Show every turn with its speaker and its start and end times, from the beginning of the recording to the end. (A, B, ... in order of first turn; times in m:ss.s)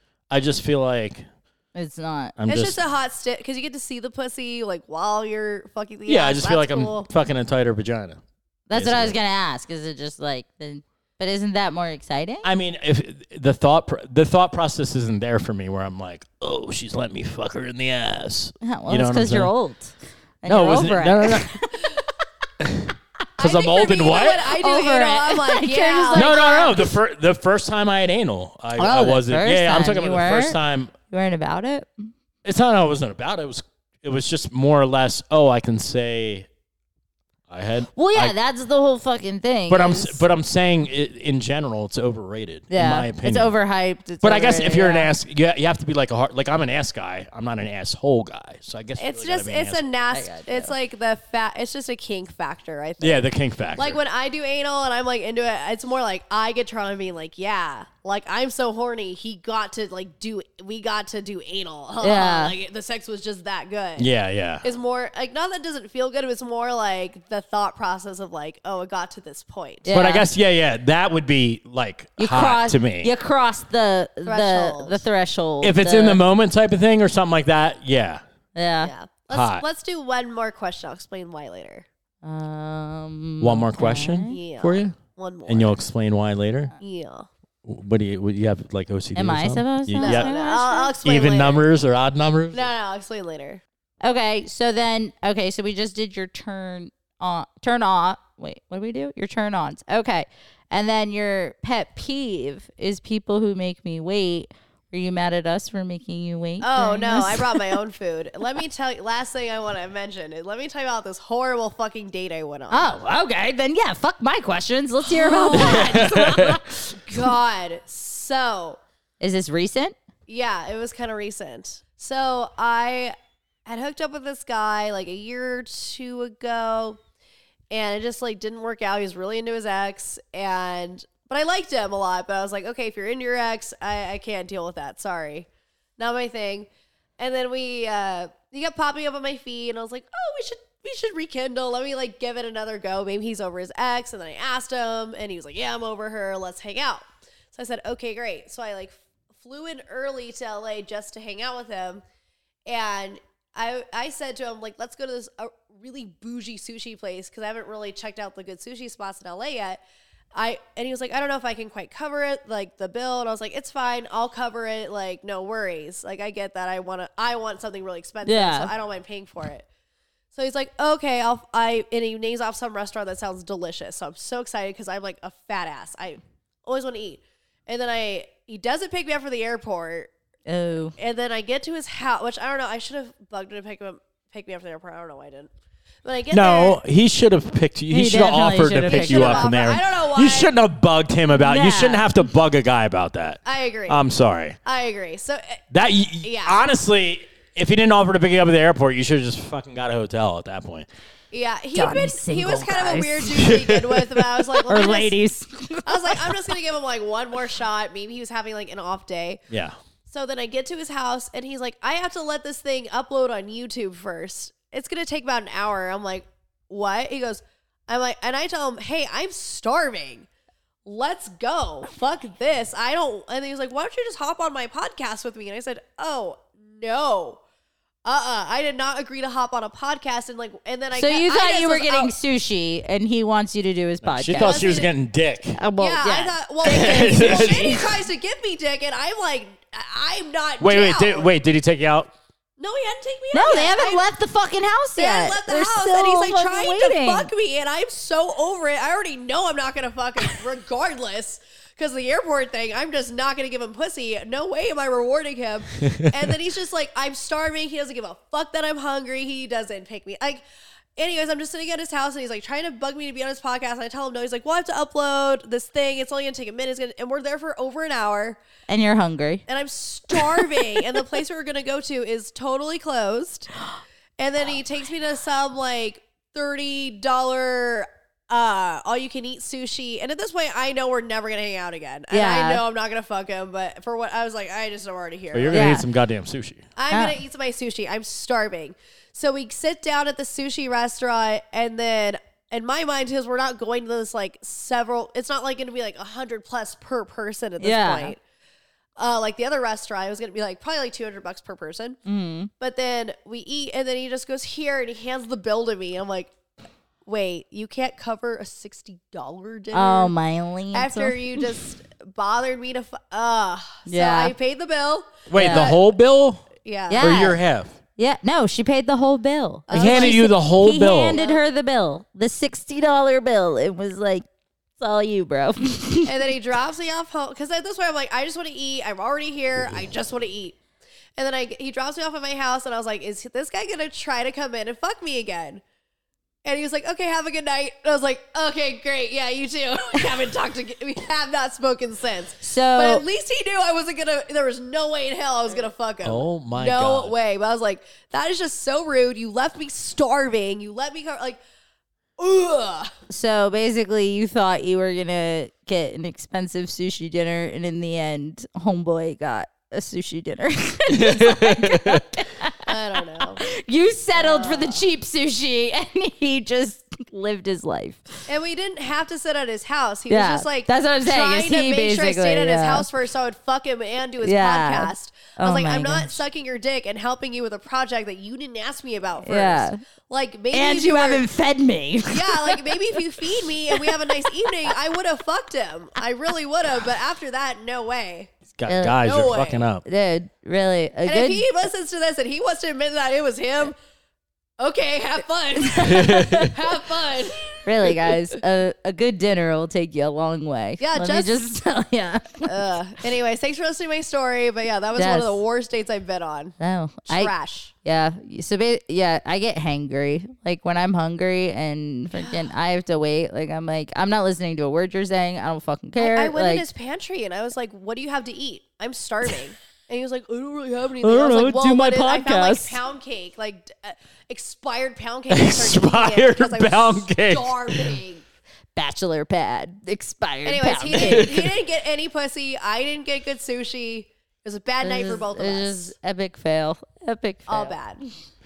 0:00.3-0:01.2 A
0:01.7-0:02.4 B
0:02.4-0:02.8 A
0:02.5-0:07.1 C
0:06.0-0:08.2 A
0:08.7-0:12.5 B
0:08.7-0:09.2 A
0:12.4-0:19.5 A
0:18.6-0:22.1 B
0:20.4-0:21.5 A
0:22.6-0:24.5 A
0:23.4-0:26.8 C
0:24.4-0:26.8 B
0:26.1-0:30.9 A
0:28.8-0:30.6 B
0:31.1-0:32.1 B
0:32.4-0:36.5 A
0:37.5-0:38.3 A
0:37.9-0:40.2 B
0:39.7-0:43.5 A
0:42.7-0:45.1 B
0:44.2-0:49.8 A
0:49.0-1:04.1 C
0:50.1-0:50.7 B
0:53.0-0:54.0 A
1:02.0-1:02.5 B
1:04.0-1:04.6 A
1:04.6-1:09.9 C
1:09.8-1:10.3 B
1:09.9-1:13.1 A
1:12.2-1:16.2 B
1:14.2-1:15.0 C
1:15.6-1:18.2 A
1:18.5-1:18.9 B
1:18.8-1:21.8 C
1:19.3-1:19.6 A
1:22.2-1:24.4 B
1:23.4-1:25.0 A
1:24.3-1:25.8 C
1:25.5-1:26.7 A
1:26.8-1:27.3 C
1:27.6-1:30.3 A
1:29.1-1:31.0 B
1:30.0-1:31.6 C
1:31.0-1:32.7 A
1:32.5-1:33.6 C
1:34.0-1:47.8 B
1:46.6-1:52.9 C
1:52.7-1:57.2 B
1:55.0-1:58.8 C
1:55.6-1:56.6 A
1:59.2-1:59.9 B
2:00.3-2:07.0 C
2:07.7-2:15.5 C
2:16.0-2:16.7 C
2:17.2-2:32.0 C
2:32.7-2:39.8 C
2:40.3-2:49.6 C
2:48.2-2:48.7 B
2:50.3-3:00.1 C
3:00.4-3:00.9 B
3:01.0-3:05.5 C
3:06.0-3:06.8 C
3:06.3-3:14.6 A
3:07.9-3:09.6 B
3:08.8-3:10.5 C
3:11.4-3:12.1 B
3:13.4-3:14.0 C
3:14.6-3:15.6 C
3:15.7-3:20.9 A
3:16.2-3:16.6 C
3:21.3-3:25.1 C
3:21.7-3:23.5 B
3:23.3-3:24.4 A
3:24.7-3:26.5 B
3:25.8-3:29.4 C
3:29.5-3:29.8 A
3:30.1-3:40.3 C
3:40.8-3:47.4 C
3:48.0-3:52.1 C
3:50.9-3:54.7 B
3:54.0-3:55.6 A
3:54.4-3:54.9 C
3:55.6-3:57.8 B
3:55.8-4:01.3 C
3:56.6-3:57.8 A
4:00.6-4:02.1 A
4:02.6-4:04.0 C
4:03.3-4:07.3 B
4:05.0-4:20.4 C
4:21.0-4:28.4 C
4:28.7-4:29.4 B
4:29.5-4:33.5 C
4:30.1-4:30.8 B
4:34.2-4:45.8 C
4:42.1-4:42.6 B
4:45.3-4:46.7 A
4:45.5-4:45.8 B
4:46.8-4:58.2 C
4:46.9-4:47.2 B
4:57.6-4:58.1 B
4:59.0-5:02.0 C
5:02.0-5:02.5 B
5:02.6-5:06.3 C
5:07.0-5:10.1 C
5:09.7-5:11.5 B
5:10.7-5:15.8 C
5:13.9-5:14.3 B
5:15.3-5:16.5 A
5:15.3-5:15.8 B
5:16.6-5:17.2 C
5:16.9-5:17.4 B
5:17.0-5:17.8 A
5:18.0-5:24.2 B
5:19.7-5:20.3 C
5:19.7-5:21.2 A
5:21.1-5:21.4 C
5:24.8-5:26.3 B
5:26.0-5:30.6 C
5:31.2-5:35.6 C
5:36.4-5:51.4 C
5:42.4-5:43.0 B
5:46.0-5:47.1 A
5:52.2-5:52.9 C
5:53.1-6:08.2 B
6:00.9-6:02.0 A
6:02.6-6:03.4 C
6:04.1-6:04.8 C
6:08.3-6:21.2 C
6:10.1-6:12.9 B
6:14.2-6:16.2 B
6:19.2-6:19.8 B
6:20.5-6:23.0 B
6:22.1-6:28.3 C
6:28.5-6:29.8 A
6:28.6-6:29.0 B
6:29.0-6:29.6 C
6:29.8-6:31.4 B
6:31.0-6:33.7 C
6:34.6-6:38.1 C
6:35.6-6:36.5 B
6:37.5-6:42.7 B
6:40.8-6:41.4 C
6:42.4-6:46.5 C
6:45.0-6:45.4 B
6:46.6-6:56.6 B
6:47.1-6:47.7 C
6:52.2-6:52.4 C
6:56.0-7:08.2 C
7:01.0-7:02.8 B
7:05.3-7:08.0 A
7:08.8-7:11.3 B
7:10.4-7:15.9 C
7:10.9-7:11.5 A
7:14.8-7:17.7 B
7:17.5-7:18.0 C